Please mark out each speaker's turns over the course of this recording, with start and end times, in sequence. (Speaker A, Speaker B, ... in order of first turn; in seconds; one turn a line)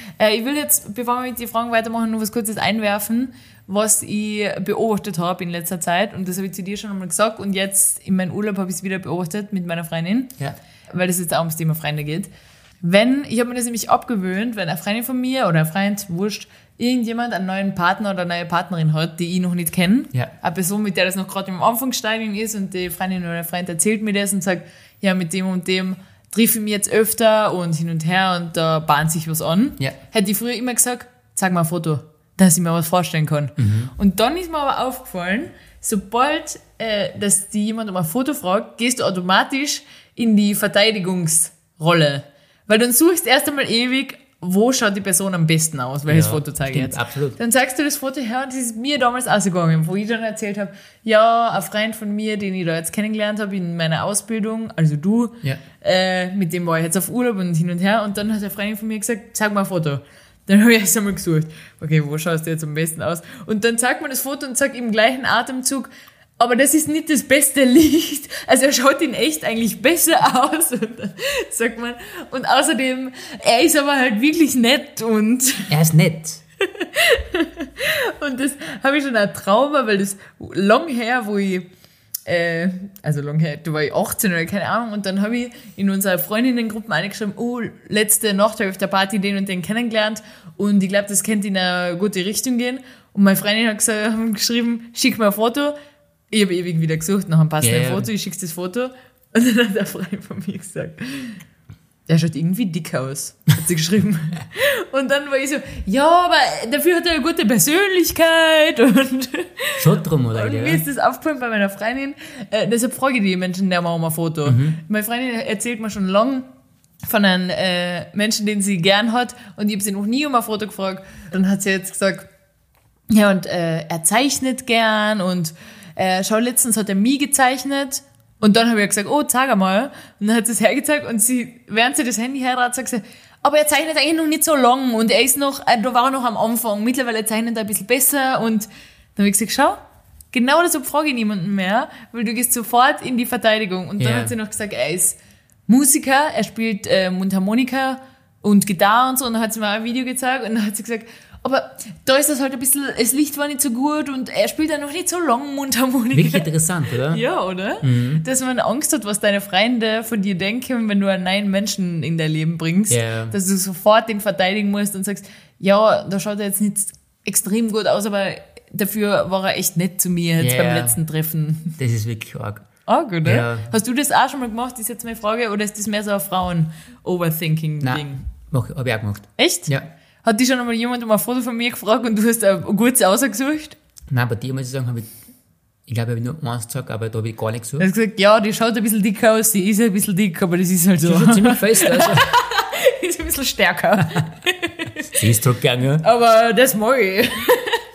Speaker A: 0.2-10.4
Speaker A: 10.9-12.3
Speaker A: 12.8-75.7
Speaker B: 33.6-33.9
Speaker B: 46.1-47.4
Speaker B: 75.7-76.4
Speaker A: 76.7-81.7
Speaker A: 82.3-95.7
Speaker A: 96.3-101.4
Speaker B: 97.6-98.1
Speaker A: 102.1-116.5
Speaker B: 109.8-110.8
Speaker B: 114.5-114.8
Speaker A: 117.0-122.3
Speaker A: 123.1-139.8
Speaker A: 140.3-171.8
Speaker B: 144.0-144.3
Speaker B: 156.1-157.2
Speaker B: 157.8-158.2
Speaker B: 162.9-163.4
Speaker B: 170.4-171.0
Speaker B: 171.8-172.7
Speaker A: 172.9-178.2
Speaker B: 173.2-173.7
Speaker B: 177.8-179.9
Speaker A: 179.4-179.7
Speaker A: 180.2-183.8
Speaker B: 184.1-185.2
Speaker B: 185.9-187.9
Speaker A: 187.8-195.2
Speaker B: 191.0-192.3
Speaker B: 195.1-196.1
Speaker A: 196.0-197.8